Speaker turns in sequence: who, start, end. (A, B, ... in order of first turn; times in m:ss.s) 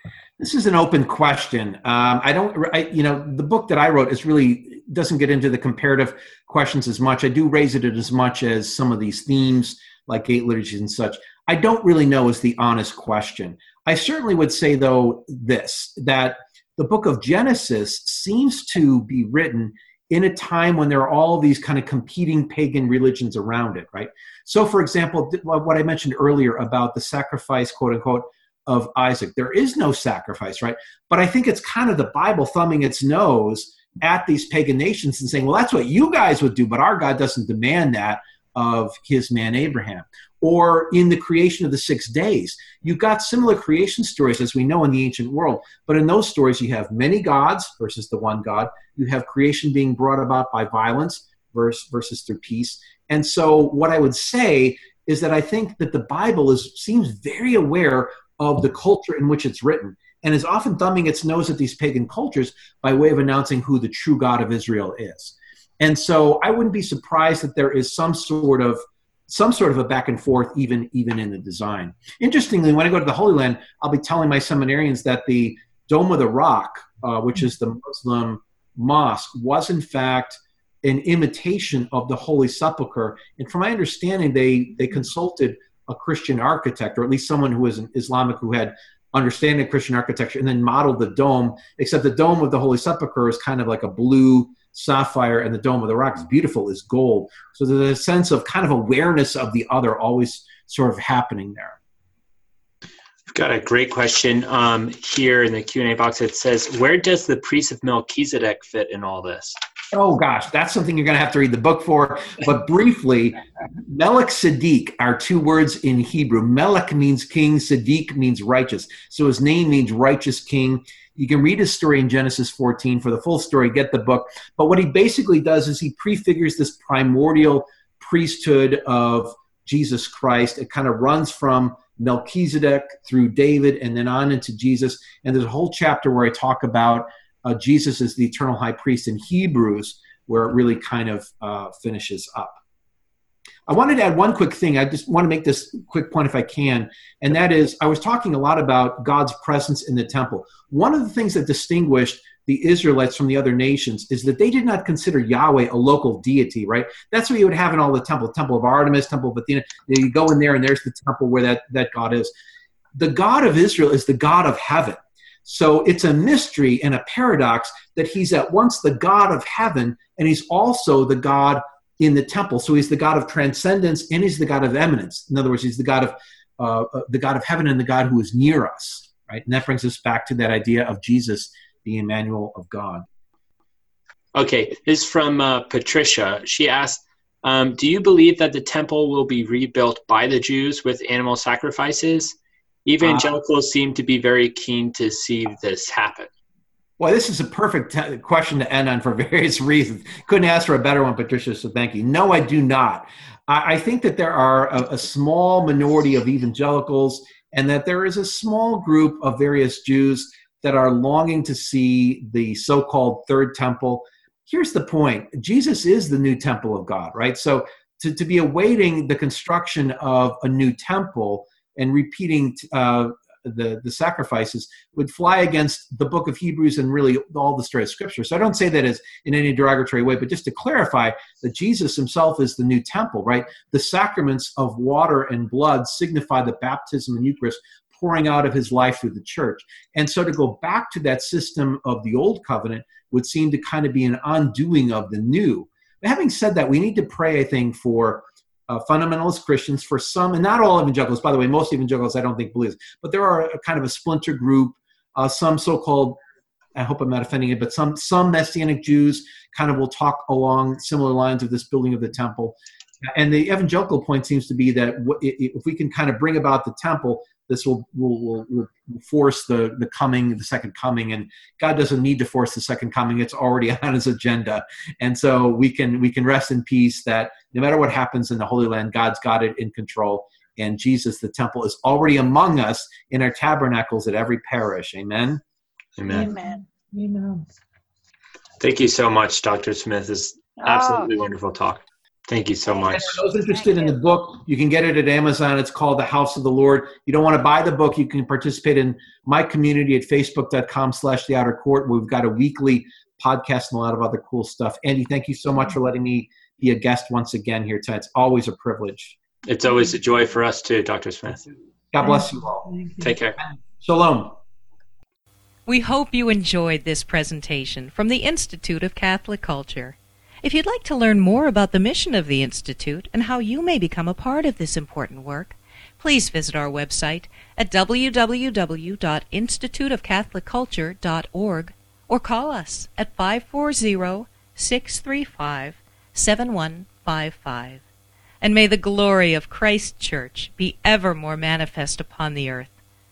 0:00.4-1:41.8 A
1:43.3-1:49.6 B
1:49.9-2:22.6 A
2:23.7-2:42.3 A
2:42.9-3:03.0 A
3:04.3-3:16.3 B
3:17.0-4:16.2 A
4:16.7-4:45.4 A
4:46.0-4:46.4 B
4:46.1-4:47.4 C
4:48.6-4:53.2 B
4:52.8-5:09.2 A
5:09.4-5:11.4 B
5:11.9-5:12.7 A
5:12.0-5:13.1 C
5:13.0-5:13.4 B
5:13.8-5:14.4 A
5:15.6-5:37.8 D
5:38.4-5:42.7 D